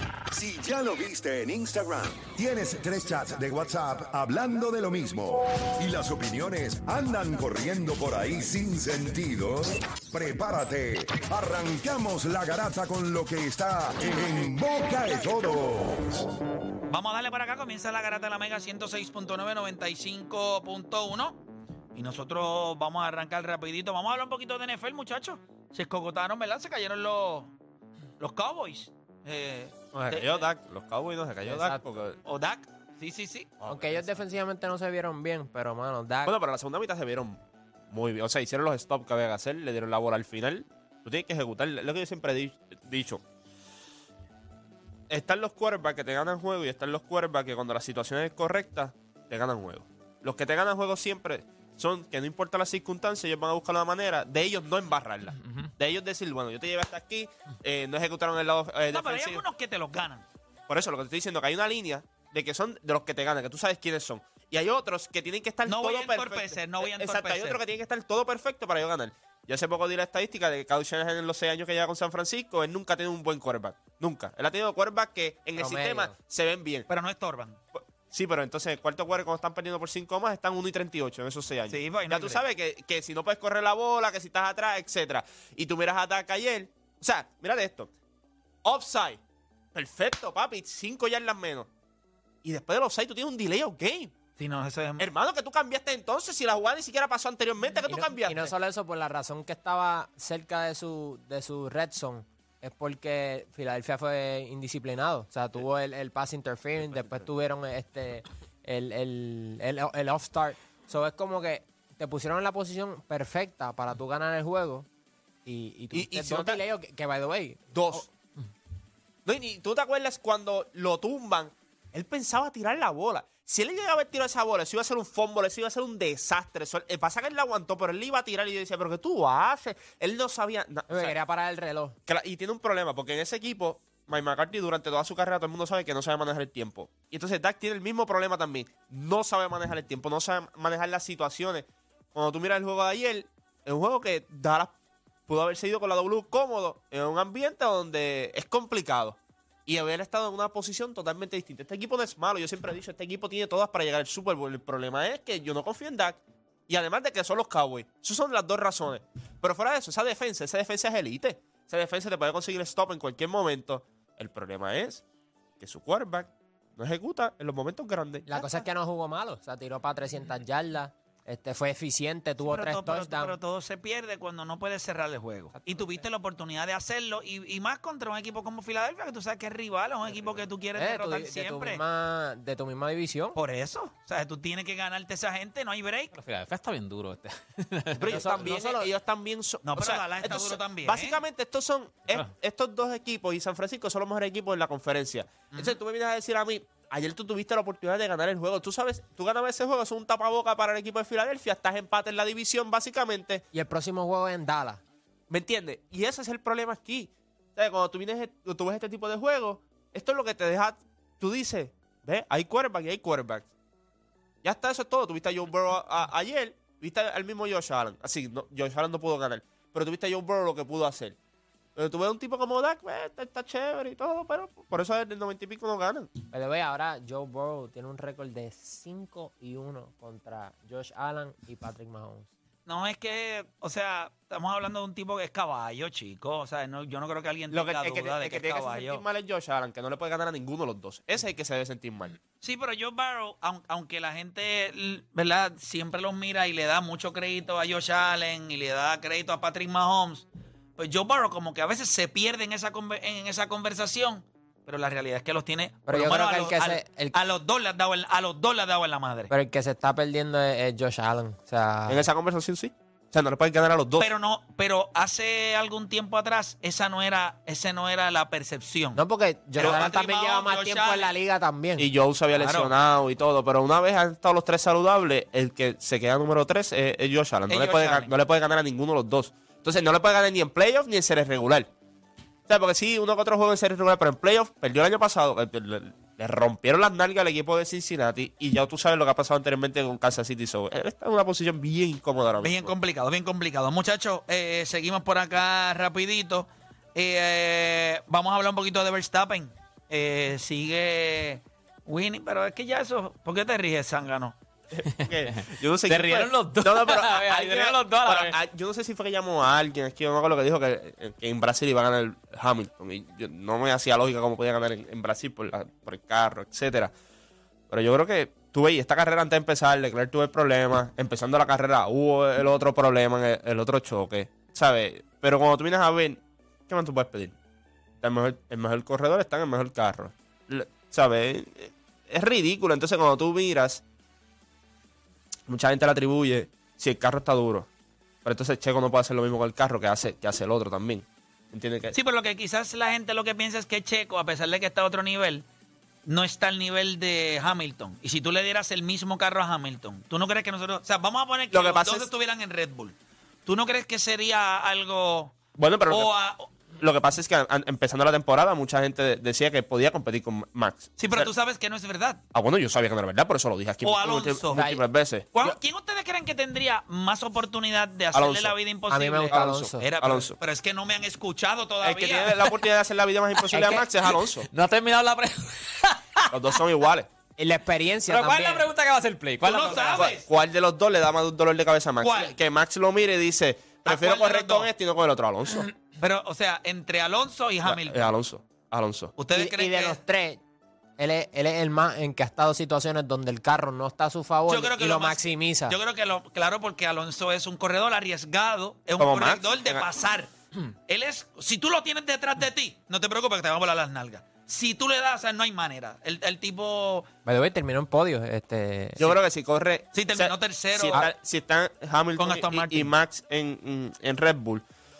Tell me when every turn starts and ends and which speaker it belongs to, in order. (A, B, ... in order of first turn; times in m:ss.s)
0:00.3-0:16.2 A
0:16.9-0:21.4 B
0:22.0-0:27.5 B
0:28.2-0:30.5 B
0:29.9-0:32.2 C
0:31.5-0:31.8 D
0:32.2-0:33.6 B
0:33.6-0:34.1 C
0:33.7-0:36.3 D
0:36.2-0:37.4 C
0:37.9-0:43.2 C
0:45.1-0:59.4 C
0:58.9-1:00.2 B
1:00.7-1:16.9 C
1:05.7-1:07.6 B
1:15.6-1:16.1 D
1:16.9-1:17.6 B
1:17.8-1:27.9 C
1:21.7-1:22.4 B
1:28.6-1:29.2 C
1:29.8-1:31.7 C
1:32.4-1:34.1 C
1:34.4-1:35.1 B
1:35.0-1:38.5 C
1:37.9-1:54.9 D
1:55.5-1:58.1 D
1:55.9-1:56.6 C
1:57.7-1:58.1 C
1:59.3-2:11.2 C
2:10.9-2:12.0 D
2:12.1-2:24.7 C
2:25.3-2:45.0 C
2:45.6-2:48.6 C
2:48.3-2:53.4 D
2:52.4-3:01.8 B
2:55.6-2:55.9 D
3:00.8-3:03.4 D
3:03.4-3:06.1 B
3:06.1-3:08.3 E
3:08.0-3:23.4 C
3:08.1-3:08.9 D
3:09.6-3:11.2 B
3:15.5-3:15.8 B
3:23.5-3:24.8 D
3:25.3-3:33.5 C
3:34.4-3:41.2 C
3:41.8-3:46.1 C
3:46.3-3:52.3 D
3:52.7-3:59.0 B
3:57.5-4:02.2 C
4:02.4-4:10.3 B
4:10.8-4:19.3 B
4:15.9-4:17.1 D
4:19.3-4:22.0 D
4:21.9-4:24.1 C
4:24.0-4:29.0 B
4:29.0-4:31.9 D
4:29.6-4:31.1 B
4:31.8-4:41.7 C
4:32.4-4:32.7 B
4:37.5-4:38.1 B
4:42.5-4:52.7 C
4:52.4-5:04.4 B
5:04.7-5:16.9 C
5:05.8-5:08.4 E
5:17.7-5:27.4 C
5:28.0-5:33.8 C
5:35.5-5:37.7 C
5:38.2-5:42.0 C
5:41.9-5:45.4 B
5:46.1-5:52.9 B
5:51.5-5:52.1 C
5:53.5-5:55.4 B
5:55.6-5:56.1 C
5:55.9-5:56.5 B
5:56.8-6:01.3 C
6:01.0-6:02.2 B
6:02.3-6:05.3 C
6:03.8-6:04.6 B
6:04.5-6:04.8 D
6:05.3-6:12.4 B
6:08.1-6:08.6 C
6:08.9-6:09.8 D
6:09.3-6:10.4 C
6:11.8-6:14.5 C
6:13.5-6:13.8 D
6:14.5-6:16.3 E
6:16.3-6:17.1 C
6:17.4-6:18.7 D
6:18.1-6:20.1 E
6:19.4-6:20.2 B
6:19.7-6:25.7 C
6:22.0-6:22.4 B
6:23.8-6:24.7 B
6:26.0-6:28.1 B
6:27.6-6:29.1 C
6:29.2-6:30.0 B
6:29.3-6:30.4 D
6:31.0-6:35.8 D
6:34.5-6:47.1 B
6:39.0-6:39.9 C
6:47.3-6:49.1 D
6:49.0-6:54.6 C
6:49.9-6:51.0 B
6:52.2-6:52.9 B